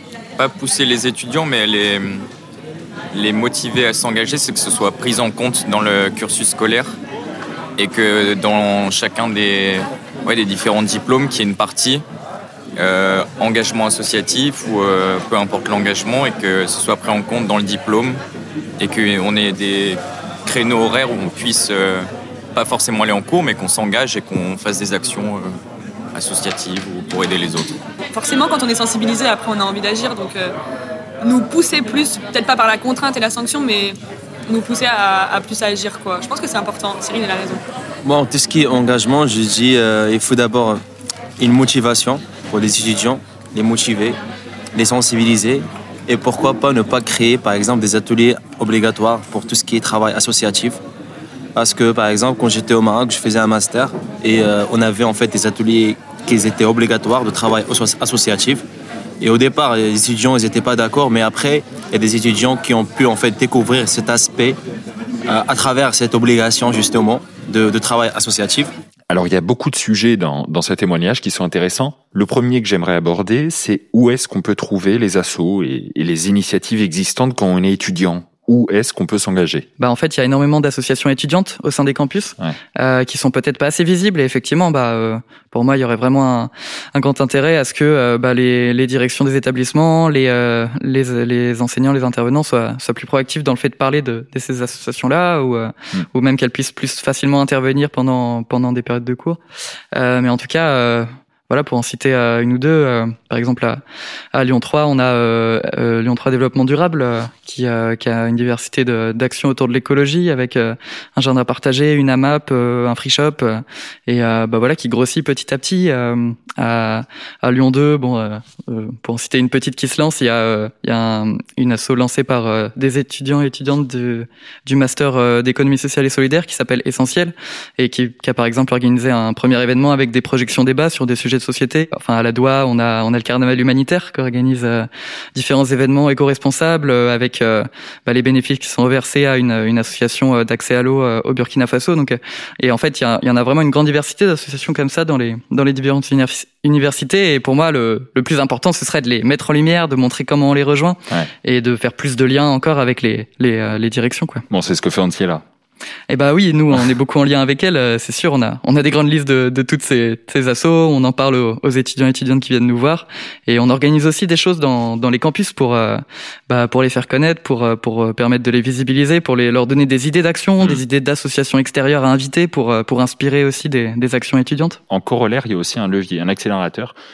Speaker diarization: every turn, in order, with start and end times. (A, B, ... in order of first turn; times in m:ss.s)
0:00.4-0:02.2 A
0:03.1-0:07.0 A
0:07.8-0:12.0 A
0:12.8-0:18.2 A
0:18.8-0:25.6 A
0:26.1-0:27.8 A
0:28.1-0:30.6 B
0:31.2-0:37.6 B
0:38.0-0:40.8 C
0:41.4-0:44.2 C
0:44.8-0:50.8 C
0:51.6-0:58.6 C
0:59.2-1:04.6 C
1:05.3-1:08.7 C
1:09.1-1:19.7 D
1:19.8-1:39.4 E
1:39.9-1:43.8 E
1:44.3-2:34.5 E
2:34.5-2:35.4 D
2:36.1-2:54.8 E
2:54.9-2:57.0 D